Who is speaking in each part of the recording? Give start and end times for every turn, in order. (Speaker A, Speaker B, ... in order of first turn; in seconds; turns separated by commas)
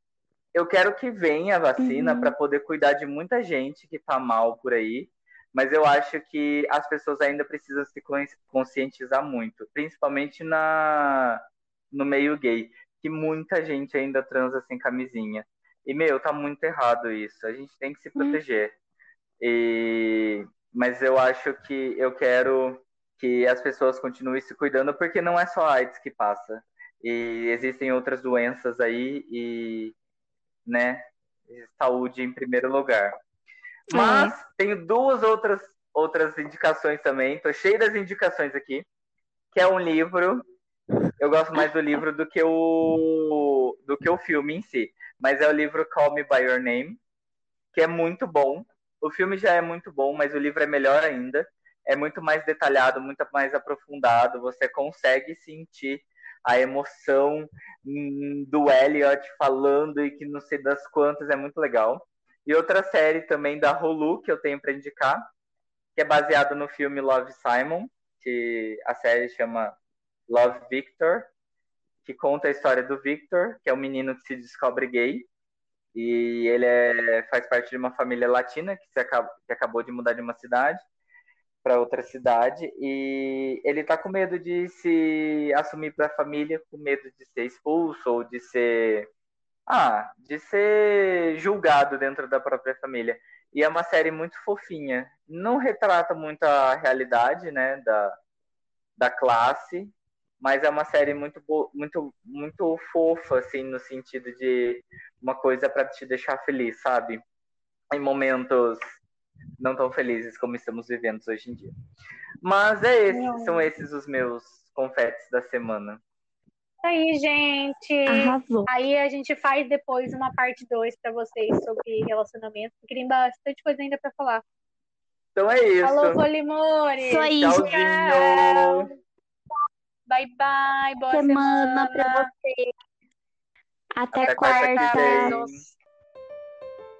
Speaker A: 0.5-11.4, Speaker B: 1.8-2.3, Speaker A: 11.9-18.7, Speaker A: 19.4-29.9, Speaker A: 30.6-33.1, Speaker B: 33.9-34.4, Speaker A: 33.9-38.9, Speaker A: 39.5-40.4, Speaker A: 41.2-47.0, Speaker A: 47.7-65.2, Speaker A: 66.0-69.7, Speaker A: 70.3-71.3, Speaker A: 72.0-75.3, Speaker A: 75.9-80.8, Speaker A: 81.6-89.1, Speaker A: 89.7-98.1, Speaker A: 99.0-107.2, Speaker A: 107.9-108.8, Speaker A: 109.6-111.7, Speaker A: 112.4-116.0, Speaker C: 113.1-113.7, Speaker C: 116.8-124.4, Speaker B: 118.1-118.7, Speaker A: 125.3-126.2, Speaker C: 125.8-128.9, Speaker B: 127.0-127.6, Speaker A: 127.4-128.9, Speaker C: 130.1-132.3, Speaker B: 131.1-132.7, Speaker B: 133.9-135.4, Speaker A: 134.1-135.6, Speaker C: 134.2-135.7